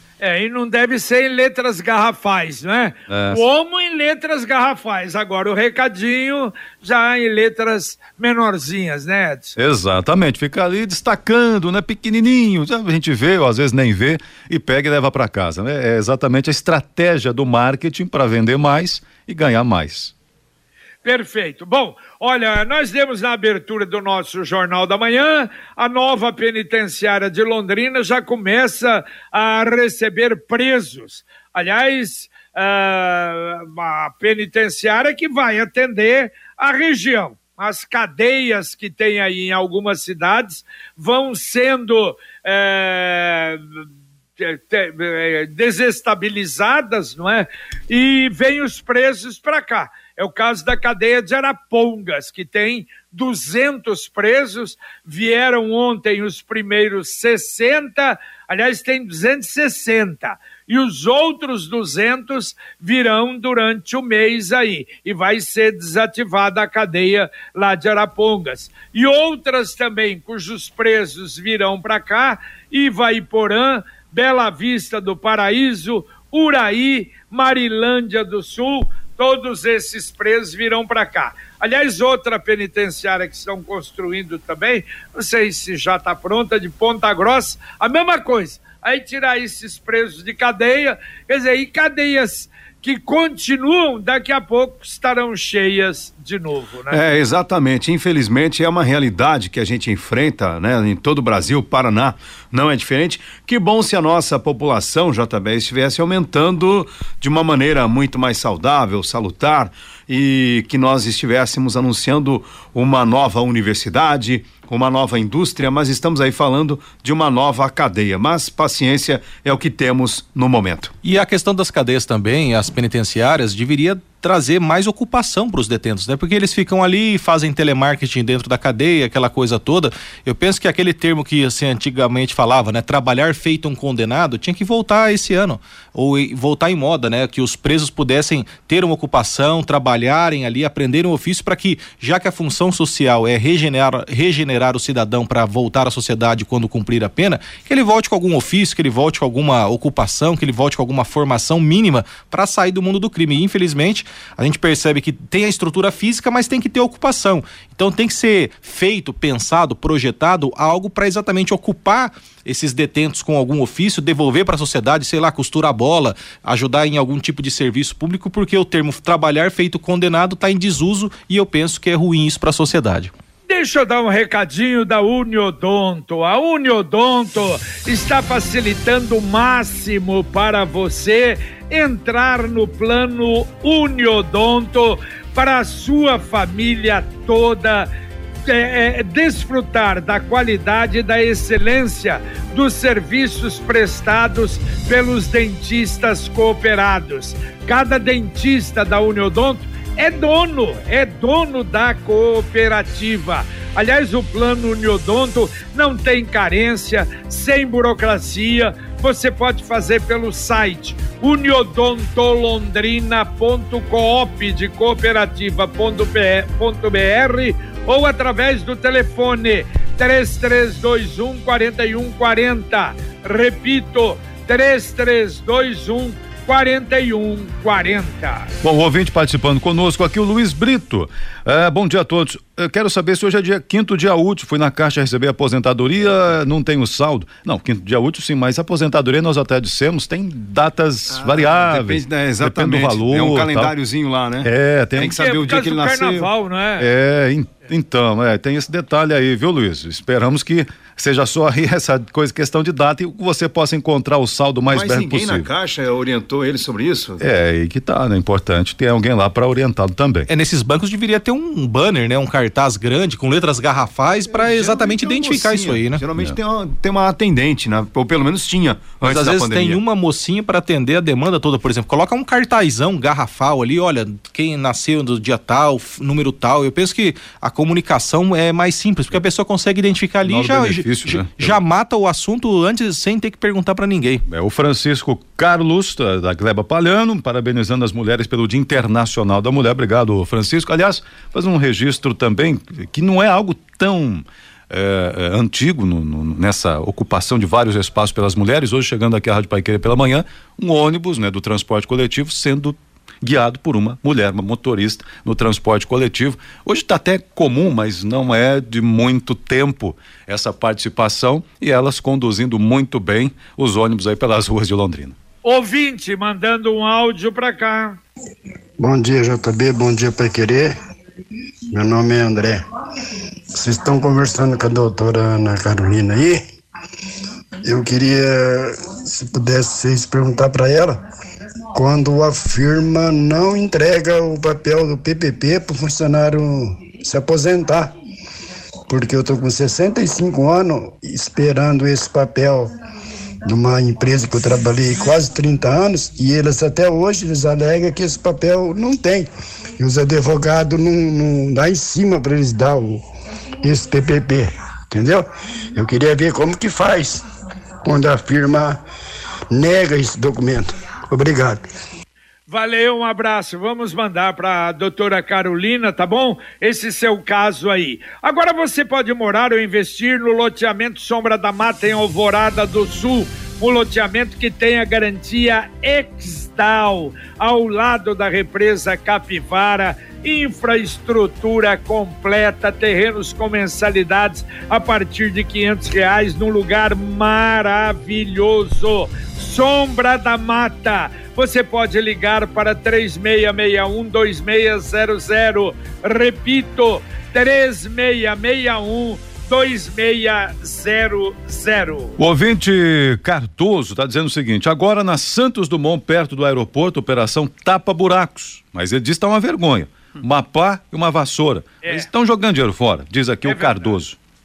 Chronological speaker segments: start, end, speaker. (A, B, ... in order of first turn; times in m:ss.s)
0:00.2-0:09.6 A
0:03.1-0:03.4 B
0:09.6-0:20.1 B
0:21.0-0:43.8 A
0:44.4-1:37.0 A
1:36.9-2:00.9 C
2:01.0-2:53.1 D
2:53.5-3:07.9 A
3:08.4-3:48.5 A
3:48.6-4:03.7 B
4:01.2-4:06.3 C
4:04.4-4:05.2 B
4:05.0-4:06.9 A
4:06.8-4:15.5 B
4:14.7-4:17.2 C
4:17.2-4:20.3 B
4:20.3-4:26.0 D
4:24.3-4:29.8 C
4:29.0-4:44.2 D
4:40.2-4:41.6 B
4:44.3-5:15.2 B
5:15.4-5:18.0 A
5:18.8-5:20.7 E
5:21.7-5:22.6 E
5:23.5-5:26.4 E
5:27.6-5:31.0 E
5:31.7-5:37.9 E
5:38.9-5:42.7 E
5:43.4-5:53.0 E
5:53.6-5:57.2 E
5:57.8-5:58.8 E
5:59.5-6:01.6 E
6:02.5-6:42.2 A
6:42.2-6:54.2 B
6:53.4-6:54.0 A